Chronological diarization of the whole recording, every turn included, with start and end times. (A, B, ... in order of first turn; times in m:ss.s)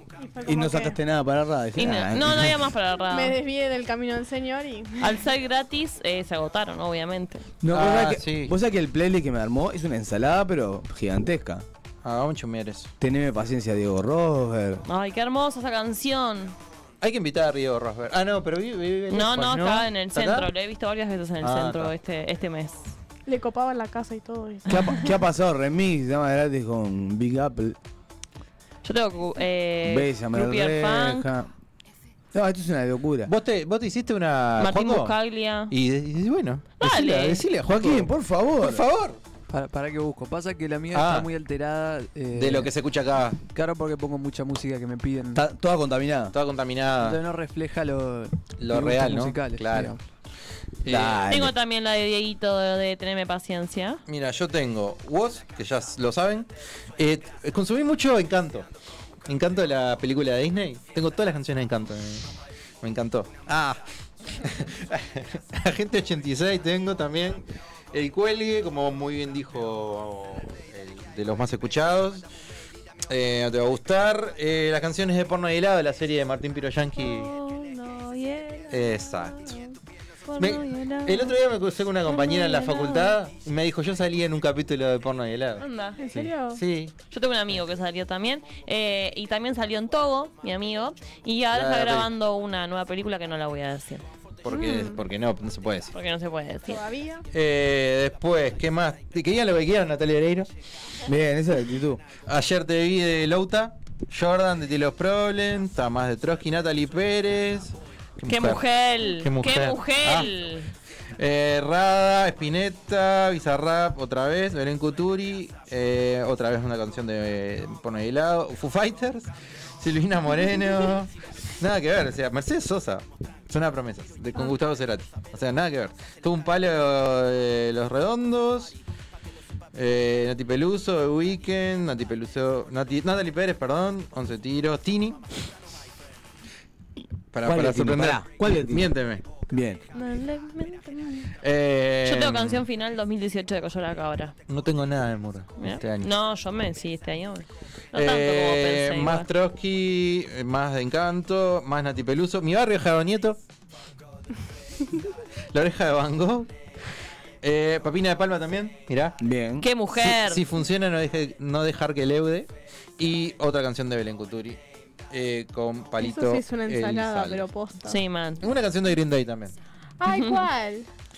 0:00.2-0:01.0 A
0:00.4-0:02.6 B
0:01.8-0:03.4 C
0:03.1-0:05.2 A
0:05.0-0:07.5 C
0:07.6-0:11.6 B
0:07.7-0:08.5 D
0:12.0-0:12.9 D
0:13.0-0:14.8 B
0:14.9-0:16.6 C
0:17.0-0:20.5 D
0:19.1-0:22.9 C
0:21.4-0:21.9 D
0:23.3-0:25.1 A
0:24.7-0:27.8 B
0:28.8-0:31.3 C
0:29.8-0:31.5 B
0:32.3-0:33.3 B
0:33.2-0:35.1 D
0:34.6-0:35.7 C
0:35.7-0:39.2 D
0:36.8-0:37.4 C
0:37.7-0:38.8 B
0:39.5-0:42.7 E
0:40.9-0:41.3 D
0:42.3-0:43.4 D
0:43.4-0:45.4 E
0:45.3-0:46.3 B
0:46.3-0:47.2 D
0:47.0-0:50.0 E
0:48.6-0:50.0 D
0:50.8-0:51.4 D
0:50.8-0:51.5 B
0:51.3-0:54.0 C
0:54.1-0:58.6 D
0:59.3-1:03.8 D
1:04.3-1:12.2 D
1:13.1-1:17.3 D
1:17.0-1:21.4 C
1:18.7-1:19.5 D
1:20.4-1:26.9 D
1:22.0-1:23.1 C
1:25.6-1:26.0 C
1:26.0-1:26.6 A
1:27.1-1:34.0 C
1:31.5-1:32.1 D
1:34.4-1:35.9 D
1:34.5-1:35.0 A
1:35.9-1:36.8 C
1:36.7-1:37.2 A
1:37.3-1:40.5 D
1:41.0-1:42.0 B
1:42.2-1:50.3 D
1:48.2-1:50.7 C
1:51.2-2:08.8 D
2:09.7-2:15.2 D
2:17.3-2:19.2 D
2:17.4-2:18.9 B
2:19.5-2:19.8 B
2:19.9-2:21.3 C
2:21.4-2:22.6 D
2:22.0-2:24.3 C
2:24.5-2:26.1 D
2:25.6-2:29.3 C
2:27.9-2:33.4 D
2:35.5-2:36.5 D
2:37.4-2:39.2 D
2:39.2-2:39.7 B
2:39.6-2:40.4 C
2:39.9-2:44.6 D
2:45.1-2:47.5 D
2:46.0-2:48.0 A
2:47.8-2:48.4 C
2:48.4-2:49.5 D
2:50.0-2:50.9 A
2:50.1-2:50.4 C